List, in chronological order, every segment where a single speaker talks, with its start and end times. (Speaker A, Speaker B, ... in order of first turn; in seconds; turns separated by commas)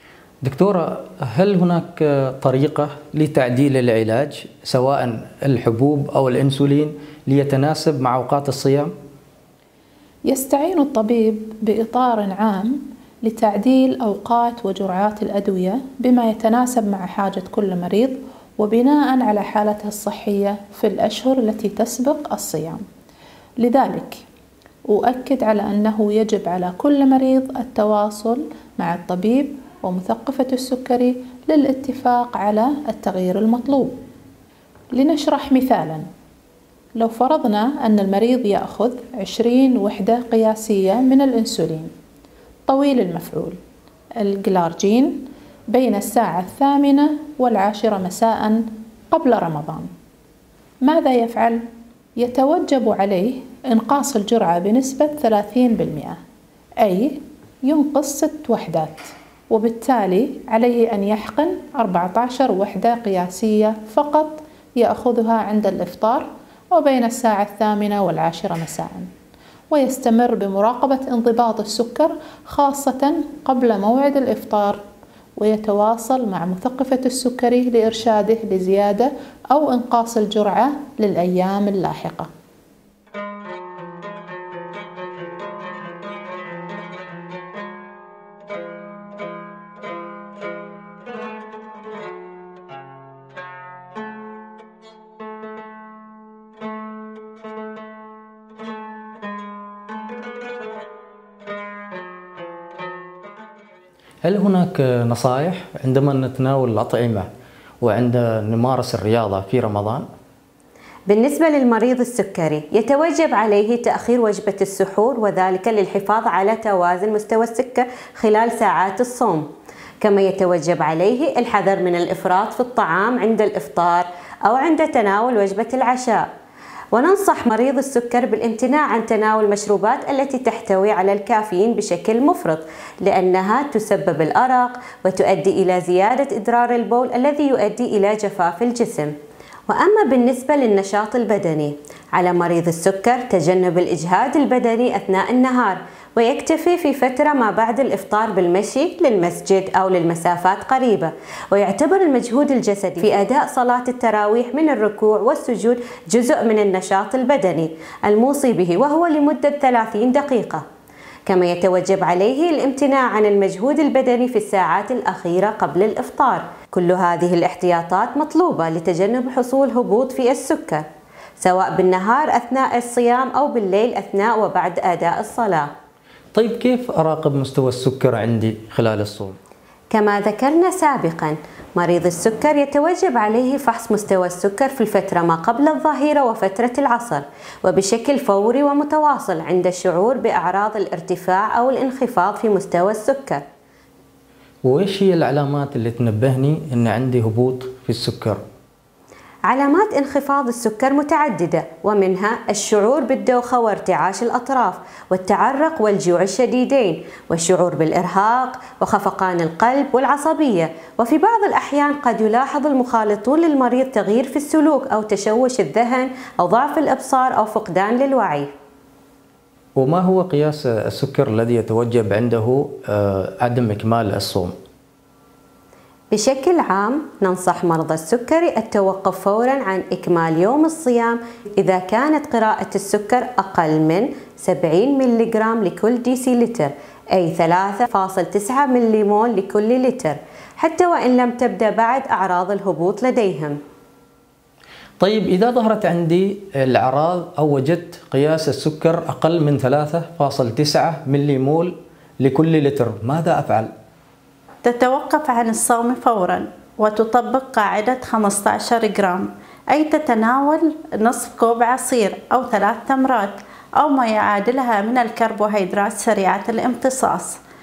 Speaker A: 0.4-8.9, Speaker B: 10.3-22.8, Speaker B: 23.6-24.2, Speaker B: 24.9-34.0, Speaker B: 34.9-36.0, Speaker B: 37.0-41.9, Speaker B: 42.7-43.6, Speaker B: 44.2-49.9, Speaker B: 50.8-51.6, Speaker B: 52.2-56.2, Speaker B: 56.8-69.1, Speaker B: 69.7-74.8, Speaker B: 75.4-82.3, Speaker A: 104.2-107.3, Speaker A: 107.8-110.1, Speaker C: 111.1-119.4, Speaker C: 120.0-126.2, Speaker C: 126.9-139.1, Speaker C: 139.7-160.6, Speaker C: 161.3-170.8, Speaker C: 171.4-175.7, Speaker A: 176.3-179.3, Speaker C: 179.9-193.4, Speaker A: 194.7-198.4, Speaker C: 199.5-218.5, Speaker A: 219.8-224.5, Speaker C: 226.1-243.6, Speaker A: 245.0-253.7, Speaker D: 254.6-267.4